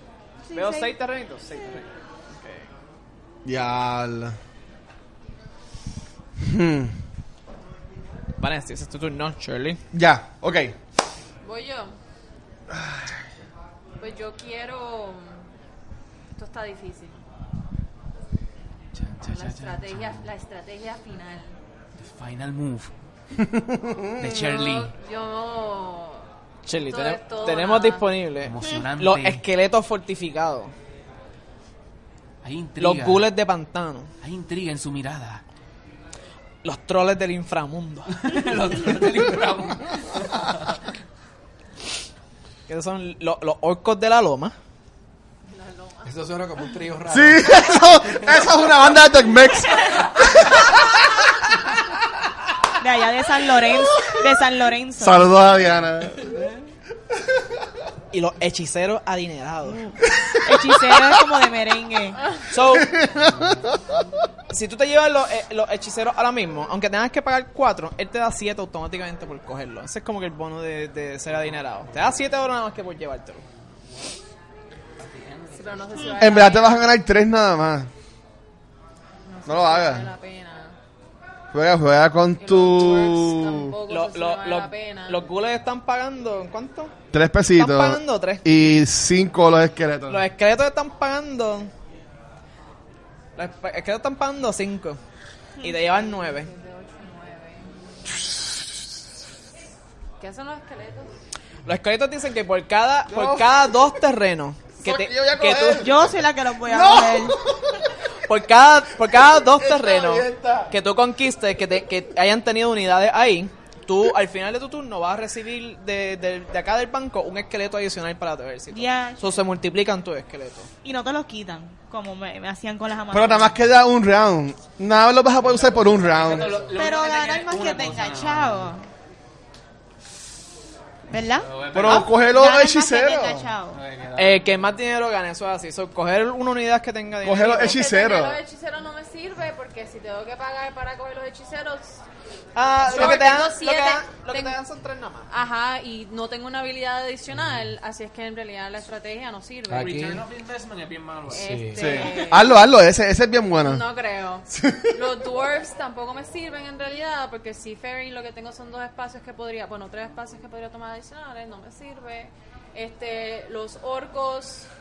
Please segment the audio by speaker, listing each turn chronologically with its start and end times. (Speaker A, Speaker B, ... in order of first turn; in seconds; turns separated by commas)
Speaker A: 0.5-1.0, Speaker B: 0.5-2.7, Speaker C: 3.5-4.4, Speaker C: 6.4-7.0, Speaker B: 8.4-9.8, Speaker C: 9.9-10.8, Speaker D: 11.4-12.0, Speaker C: 12.7-13.0, Speaker D: 14.0-15.4, Speaker D: 16.4-17.2, Speaker E: 18.9-20.3, Speaker D: 19.3-21.6, Speaker E: 22.0-22.9, Speaker C: 23.4-24.2, Speaker E: 24.2-24.9, Speaker D: 24.2-28.2, Speaker B: 26.7-30.7, Speaker E: 28.4-29.4, Speaker E: 32.4-33.3, Speaker B: 32.8-34.1, Speaker E: 34.2-35.4, Speaker B: 36.6-38.3, Speaker E: 38.2-40.8, Speaker B: 42.7-44.5, Speaker D: 45.5-46.1, Speaker F: 46.0-47.9, Speaker C: 47.1-51.0, Speaker A: 52.8-55.4, Speaker C: 55.0-56.3, Speaker E: 56.2-56.6, Speaker B: 58.1-59.9, Speaker A: 59.7-62.2, Speaker B: 62.5-63.0, Speaker C: 62.8-63.7, Speaker E: 63.1-64.0, Speaker B: 64.5-73.4, Speaker E: 73.8-74.2, Speaker E: 75.0-76.2, Speaker D: 75.5-76.9, Speaker C: 76.2-77.9, Speaker D: 79.2-80.8, Speaker C: 79.5-80.1, Speaker C: 81.5-83.7, Speaker D: 82.4-85.3, Speaker B: 83.9-86.9, Speaker C: 87.1-90.2, Speaker B: 87.6-88.4, Speaker B: 90.1-91.7, Speaker B: 93.4-95.0, Speaker B: 95.6-96.5, Speaker D: 95.9-97.7, Speaker D: 100.2-101.1, Speaker B: 101.7-105.9, Speaker C: 103.1-103.5, Speaker C: 104.8-106.0, Speaker A: 105.8-107.4, Speaker C: 106.6-107.7, Speaker B: 108.3-120.7, Speaker C: 109.5-110.7, Speaker A: 118.7-119.2, Speaker A: 120.8-123.6, Speaker C: 123.1-126.5, Speaker E: 125.6-128.8, Speaker F: 126.4-126.7, Speaker A: 126.8-128.9, Speaker A: 131.1-133.8, Speaker E: 131.4-132.2, Speaker C: 131.7-133.5, Speaker E: 133.7-134.4, Speaker B: 134.2-137.8, Speaker C: 137.2-138.4, Speaker D: 137.5-142.0, Speaker B: 142.6-145.3, Speaker D: 142.8-144.6, Speaker D: 145.3-150.0, Speaker F: 149.7-150.2, Speaker E: 149.8-151.5, Speaker F: 151.3-152.1, Speaker D: 151.3-152.6, Speaker C: 151.8-153.8, Speaker D: 153.6-164.7, Speaker C: 154.5-155.0